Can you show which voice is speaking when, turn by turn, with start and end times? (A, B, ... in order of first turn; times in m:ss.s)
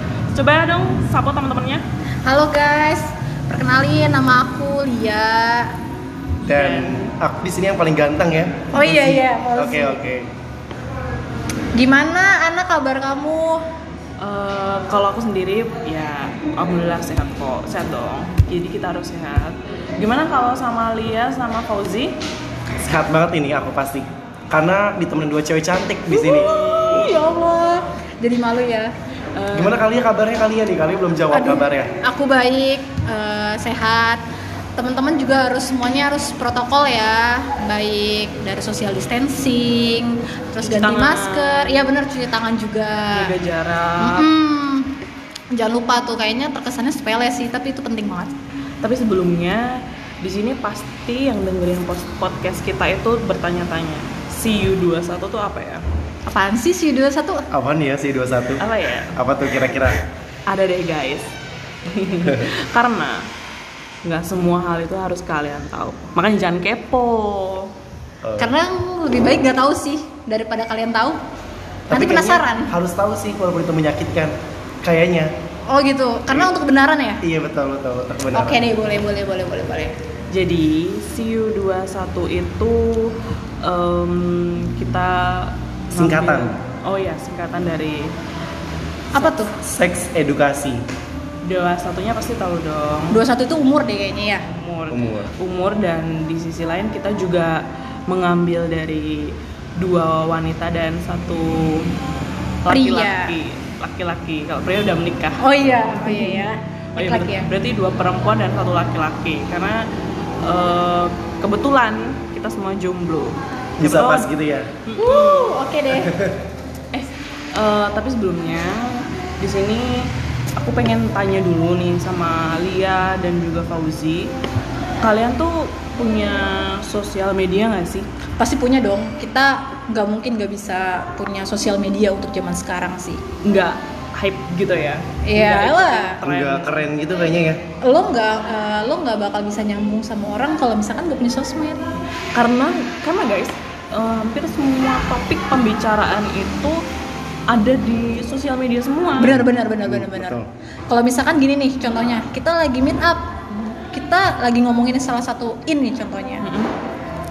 0:00.3-0:01.8 A
0:02.2-0:05.8 B
0:06.5-0:10.3 C
0:06.5-0:07.1 A
0:08.7-0:10.0 B
0:11.8-0:13.6 B
0:14.2-0:22.2 A
0:22.8-0:26.5 C
0:26.1-0:28.9 B
0:26.5-0:27.1 A
0:29.4-0:29.8 A
0:29.5-0:31.9 C
0:31.3-0:34.2 B
0:34.8-0:43.3 B
0:40.6-0:41.8 A
0:43.1-0:44.3 A
0:44.0-0:44.9 B
0:45.5-0:48.3 B
0:48.8-0:55.8 A
0:56.3-0:57.5 B
0:57.5-0:58.6 C
0:58.6-0:59.2 A
0:59.2-1:00.0 C
1:00.5-1:03.3 A
1:04.0-1:07.7 A
1:08.2-1:08.5 C
1:08.4-1:11.2 B
1:11.9-1:15.3 C
1:11.9-1:12.8 B
1:15.7-1:17.2 B
1:17.2-1:18.7 C
1:18.3-1:20.0 B
1:20.3-1:28.2 A
1:25.9-1:26.6 C
1:29.2-1:29.5 B
1:29.6-1:30.8 C
1:31.4-1:33.2 A
1:33.1-1:34.5 B
1:34.5-1:41.9 A
1:34.9-1:35.3 C
1:42.6-1:49.9 A
1:42.7-1:43.3 B
1:45.4-1:47.5 B
1:50.4-1:54.3 A
1:53.8-1:54.7 C
1:54.8-1:55.6 A
1:55.0-1:56.1 B
1:55.9-1:56.4 C
1:56.9-2:04.3 A
2:05.0-2:08.1 A
2:08.4-2:13.2 B
2:13.4-2:16.8 A
2:15.2-2:16.2 B
2:16.2-2:17.6 C
2:17.8-2:22.0 B
2:22.4-2:26.8 A
2:27.5-2:29.3 A
2:29.2-2:30.4 B
2:29.2-2:30.5 C
2:30.9-2:36.5 B
2:36.4-2:36.7 A